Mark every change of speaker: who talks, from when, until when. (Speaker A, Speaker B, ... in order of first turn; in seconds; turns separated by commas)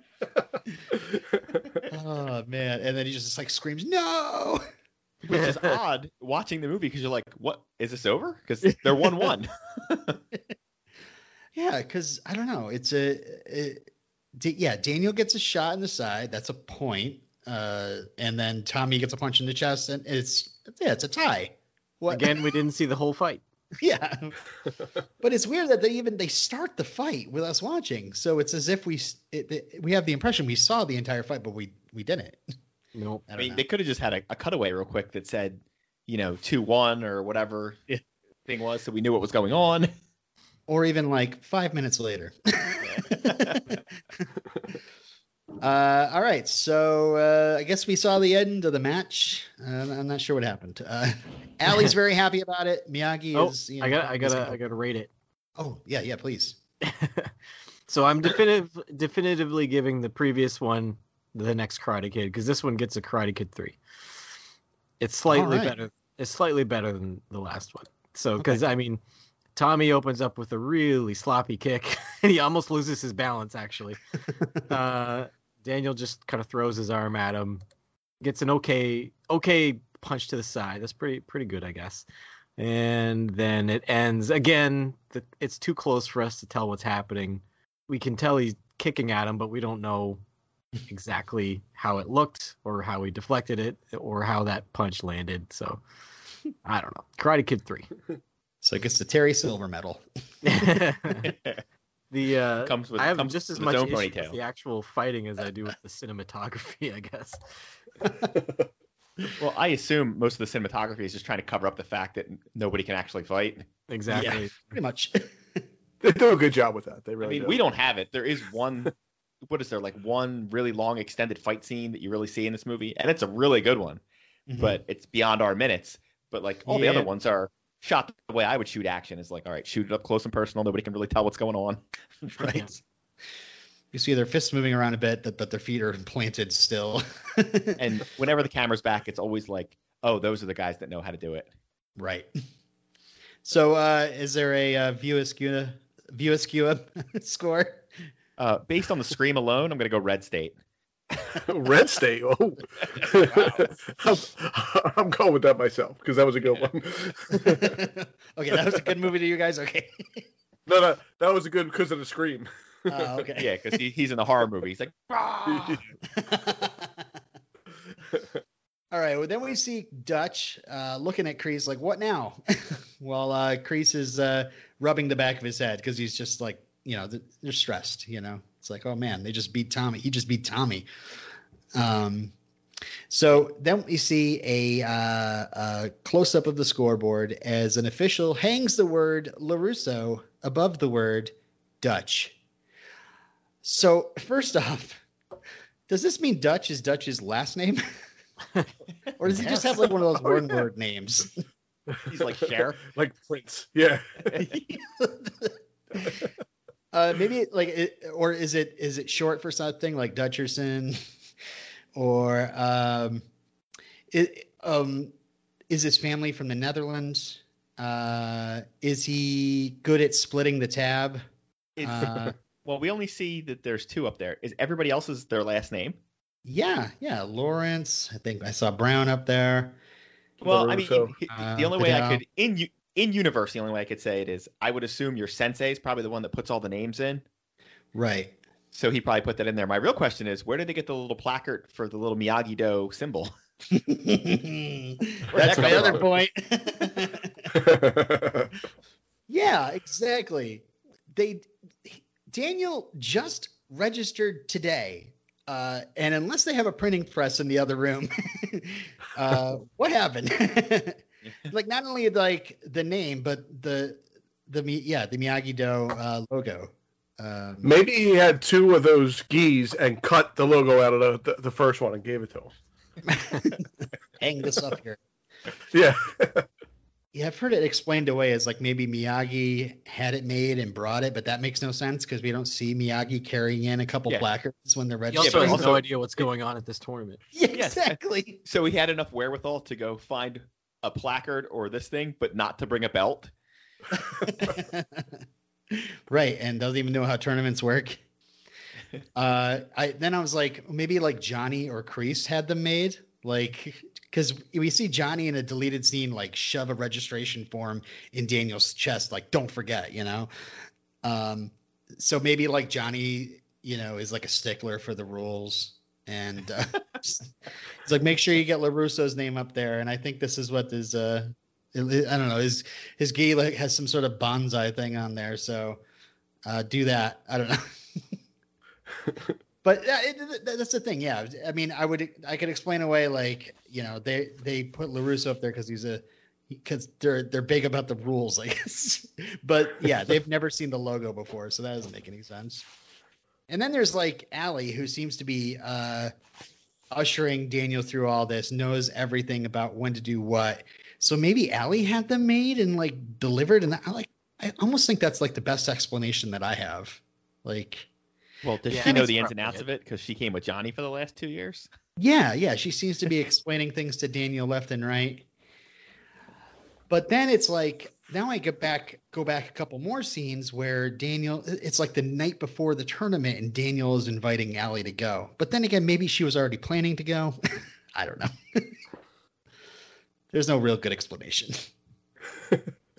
Speaker A: 0.4-1.8, Speaker B: 1.9-4.6, Speaker C: 5.2-10.2, Speaker D: 5.3-5.8, Speaker B: 11.6-22.5, Speaker D: 22.1-23.4, Speaker B: 23.8-24.4, Speaker B: 25.2-32.4, Speaker D: 33.0-33.2, Speaker B: 33.3-33.6, Speaker C: 33.4-37.8, Speaker C: 38.5-39.9, Speaker B: 40.7-44.2, Speaker C: 42.8-43.8, Speaker B: 45.6-54.6, Speaker D: 53.3-55.1, Speaker B: 55.6-56.6, Speaker D: 56.8-57.3, Speaker D: 57.9-63.8, Speaker D: 65.0-69.0, Speaker B: 65.3-65.8, Speaker D: 69.5-74.0, Speaker D: 74.7-77.6, Speaker D: 78.2-82.1, Speaker D: 82.6-90.2, Speaker D: 90.9-95.8, Speaker D: 96.7-97.9, Speaker B: 98.6-100.0, Speaker D: 100.4-101.3, Speaker C: 101.2-101.6, Speaker D: 102.1-107.4, Speaker C: 102.7-104.4, Speaker A: 108.4-108.6, Speaker C: 109.4-113.7, Speaker D: 113.9-114.5, Speaker B: 114.1-115.6, Speaker A: 116.0-117.6, Speaker C: 117.2-118.9, Speaker C: 119.5-124.0, Speaker B: 124.5-124.8, Speaker C: 124.6-132.5, Speaker B: 126.7-127.1, Speaker B: 132.4-132.8, Speaker B: 133.9-137.8, Speaker C: 137.8-141.5, Speaker B: 142.0-142.3, Speaker B: 143.4-147.9, Speaker C: 148.4-150.6, Speaker A: 151.4-157.8, Speaker C: 152.8-153.7, Speaker B: 157.4-160.2, Speaker A: 160.7-163.1, Speaker B: 162.9-163.5, Speaker C: 163.4-165.8, Speaker B: 166.0-167.1, Speaker B: 168.9-180.9, Speaker B: 181.7-182.3, Speaker B: 183.1-192.4, Speaker B: 193.6-195.0, Speaker B: 195.9-197.8, Speaker B: 199.2-201.4, Speaker D: 199.3-199.6, Speaker A: 200.2-200.6, Speaker A: 201.9-204.3, Speaker C: 202.1-202.9, Speaker C: 204.3-204.7, Speaker B: 204.4-206.2, Speaker A: 206.0-206.3, Speaker B: 206.9-211.0, Speaker B: 211.9-213.2, Speaker B: 214.1-215.1, Speaker B: 215.7-221.2, Speaker C: 221.8-226.0, Speaker B: 221.8-222.3, Speaker B: 226.4-229.8, Speaker A: 230.4-231.1, Speaker C: 230.4-237.2, Speaker B: 231.3-232.2, Speaker B: 237.9-238.3, Speaker C: 238.7-243.3, Speaker B: 243.7-247.5, Speaker C: 245.3-246.1, Speaker A: 245.5-245.9, Speaker A: 247.5-248.6, Speaker B: 249.3-267.8, Speaker A: 267.6-272.5, Speaker B: 273.1-275.0, Speaker A: 275.7-276.5, Speaker B: 277.1-285.8, Speaker D: 285.1-287.2, Speaker C: 285.2-285.9, Speaker B: 287.3-288.4, Speaker C: 287.5-293.3, Speaker B: 294.1-298.0, Speaker B: 299.1-310.3, Speaker B: 311.0-317.3, Speaker B: 317.8-325.8, Speaker B: 326.4-328.0, Speaker A: 329.1-329.4, Speaker B: 329.6-342.6, Speaker B: 343.5-346.1, Speaker B: 346.9-357.9, Speaker C: 358.4-361.7, Speaker D: 358.7-359.6, Speaker B: 362.0-365.3, Speaker B: 366.9-377.4, Speaker B: 377.9-378.8, Speaker B: 380.3-381.6